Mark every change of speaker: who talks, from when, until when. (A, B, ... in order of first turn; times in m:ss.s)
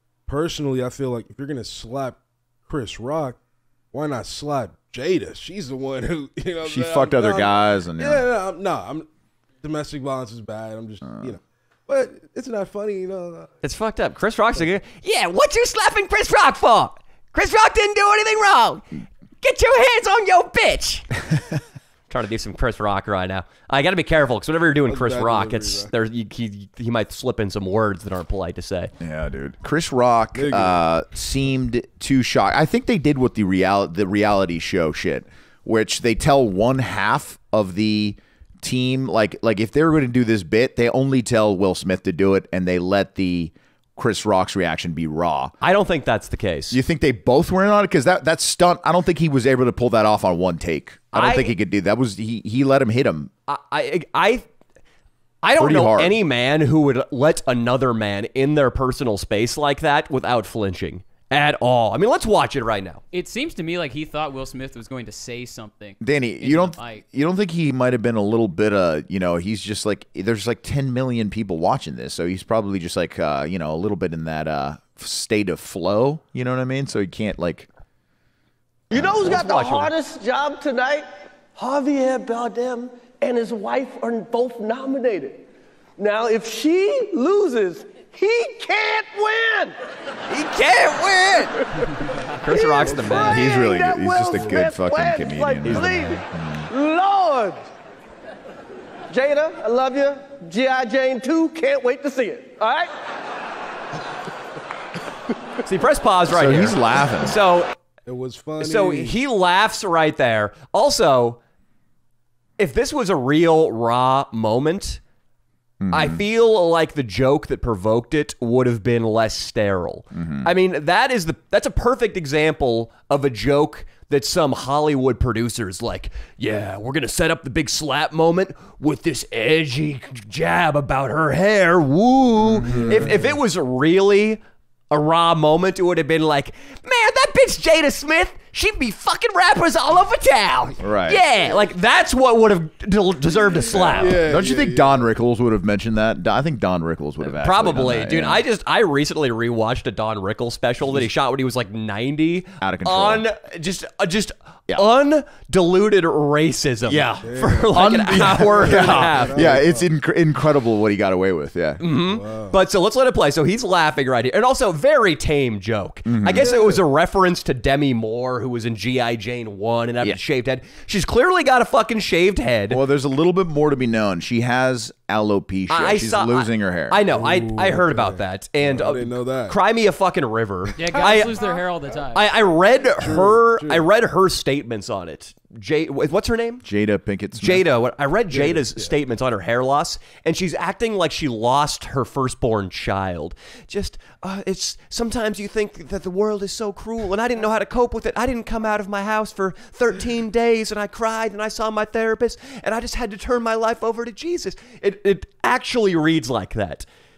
0:00.3-0:03.4 A
0:03.9-0:09.1 A
0:06.6-0:08.2 B
0:09.6-0:13.5 A
0:11.0-0:11.3 B
0:13.6-0:21.1 C
0:22.1-0:28.9 C
0:24.8-0:25.9 A
0:29.0-0:45.5 B
0:30.3-0:30.8 A
0:45.6-0:46.8 C
0:46.7-0:53.3 B
0:51.1-0:51.6 C
0:53.5-0:54.5 C
0:55.4-1:03.0 C
0:55.6-0:56.2 B
1:03.1-1:07.0 D
1:06.0-1:17.7 B
1:18.9-1:19.3 B
1:18.9-1:25.4 E
1:18.9-1:19.9 C
1:26.0-1:29.7 E
1:30.3-1:31.6 C
1:32.4-1:33.5 C
1:32.5-1:37.7 E
1:33.1-1:36.7 B
1:35.6-1:36.2 C
1:39.1-1:42.9 E
1:45.6-1:47.7 C
1:46.3-1:47.4 B
1:48.0-1:49.2 A
1:48.6-1:51.4 C
1:52.6-1:55.0 C
1:55.8-1:56.2 B
1:55.9-2:24.3 C
2:00.1-2:00.5 B
2:12.7-2:13.0 B
2:12.7-2:13.0 A
2:20.8-2:21.2 B
2:23.7-2:25.0 A
2:23.8-2:28.4 B
2:27.2-2:39.6 C
2:32.6-2:33.2 B
2:36.9-2:39.9 A
2:37.7-2:41.8 B
2:41.8-2:52.8 C
2:42.0-2:42.6 A
2:46.0-2:46.5 B
2:46.4-2:46.8 A
2:52.7-2:57.0 B
2:55.7-3:01.4 C
2:57.1-2:59.6 A
3:00.8-3:02.2 D
3:02.1-3:06.6 C
3:02.9-3:03.9 A
3:06.6-3:07.6 B
3:07.3-3:26.8 C
3:08.3-3:09.0 A